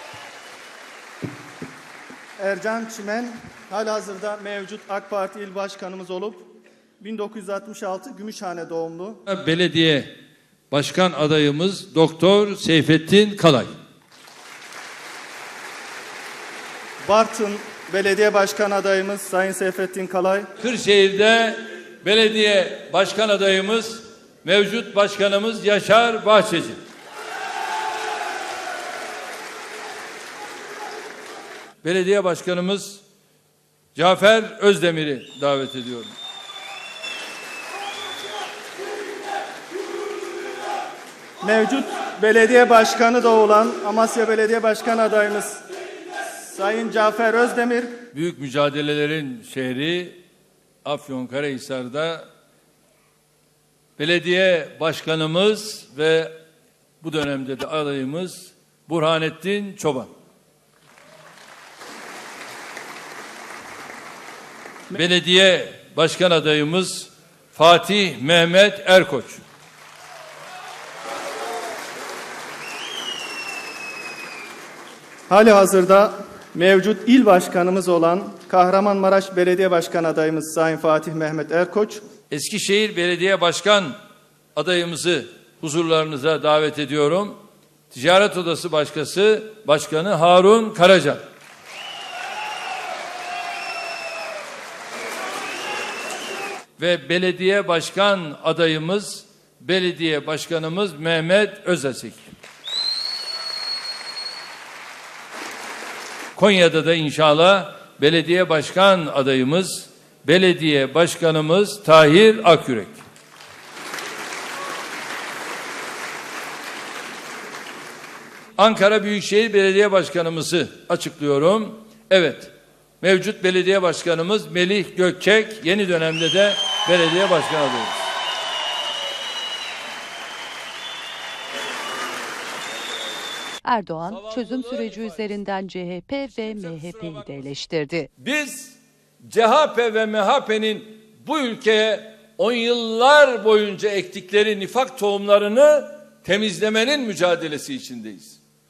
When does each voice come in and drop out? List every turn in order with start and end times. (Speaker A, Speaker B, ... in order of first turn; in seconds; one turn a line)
Speaker A: 2.4-6.5
Speaker A: 7.0-9.2
Speaker B: 9.3-10.1
Speaker B: 10.7-13.7
Speaker A: 17.1-20.5
Speaker B: 20.6-26.8
Speaker B: 31.8-33.0
Speaker B: 34.0-36.1
Speaker A: 41.4-45.6
Speaker A: 46.4-47.9
Speaker B: 48.1-50.2
Speaker B: 50.8-52.2
Speaker B: 54.0-56.3
Speaker B: 57.0-60.1
Speaker B: 64.9-69.4
Speaker A: 75.3-82.0
Speaker B: 82.3-84.0
Speaker B: 84.5-87.4
Speaker B: 87.9-91.2
Speaker B: 96.8-102.2
Speaker B: 106.3-113.0
Speaker B: 118.6-128.1
Speaker C: 133.7-138.1
Speaker B: 134.1-135.4
Speaker B: 136.2-137.5
Speaker B: 138.2-148.4